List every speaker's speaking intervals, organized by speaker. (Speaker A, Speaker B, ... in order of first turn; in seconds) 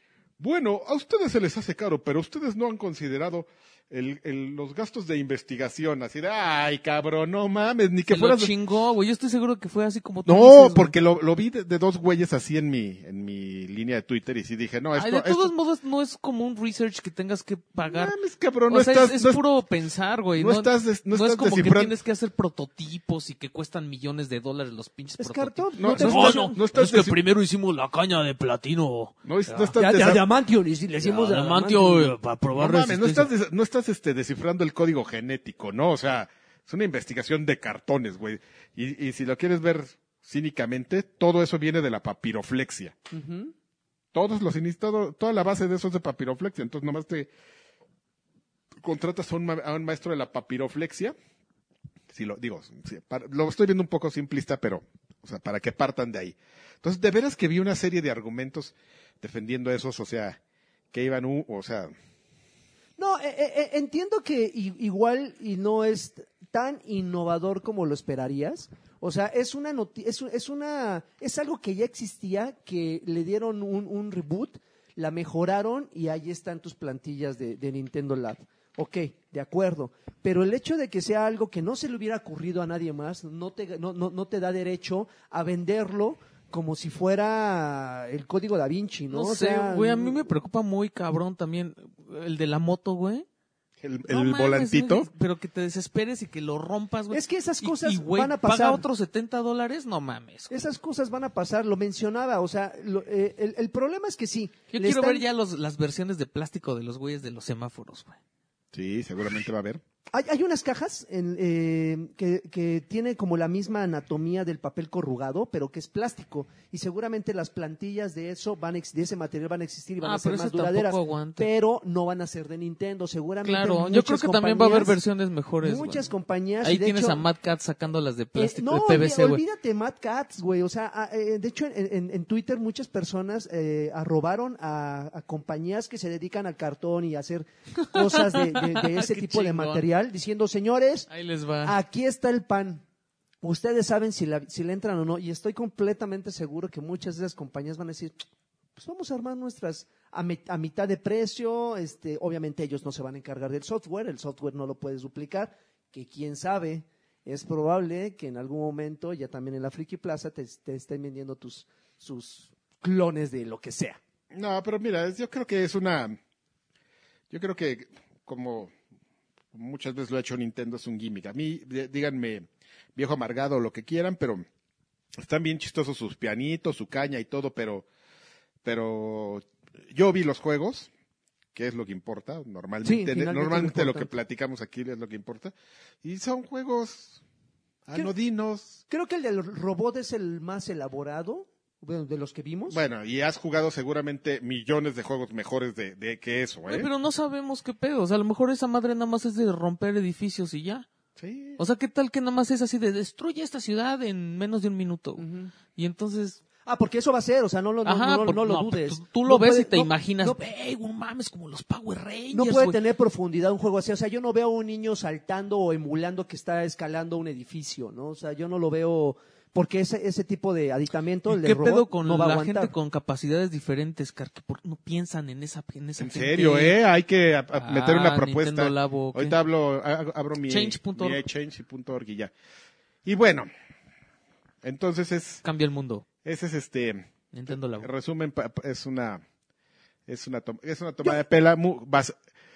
Speaker A: 0.4-8.5, 10.2-15.5, 17.9-19.4, 20.4-21.9, 25.8-27.2, 29.2-30.2, 32.6-42.9, 44.1-47.3, 48.8-51.1, 52.1-60.4, 60.9-61.9, 93.8-95.1, 108.7-109.8, 164.3-166.2, 167.3-168.7, 169.5-174.4, 175.2-177.8, 178.6-180.9, 181.5-187.2, 187.8-188.8, 192.7-196.9, 201.2-201.6, 226.0-232.3, 233.0-233.5, 234.6-235.4, 236.2-237.1, 237.8-239.2, 240.1-242.1
Speaker B: 8.1-10.9, 14.9-18.1, 18.7-29.8, 31.0-33.3, 89.1-93.2, 94.1-100.6, 104.7-108.2, 120.0-121.5, 123.4-126.1, 126.6-129.4, 137.8-139.8, 141.1-141.8, 196.7-200.9, 201.6-205.2, 205.7-206.4, 207.8-212.8, 221.3-226.8, 227.5-229.4, 230.5-231.2, 235.4-236.0, 237.3-237.9
Speaker C: 25.2-26.6, 29.8-32.1, 43.1-43.5, 63.0-90.3, 97.1-98.8, 100.5-105.2, 110.1-125.0, 125.6-127.2, 128.3-141.1, 141.6-142.8, 143.4-148.2, 148.8-164.0, 182.8-184.1, 188.9-192.8, 205.2-205.5, 206.6-210.4, 212.3-222.7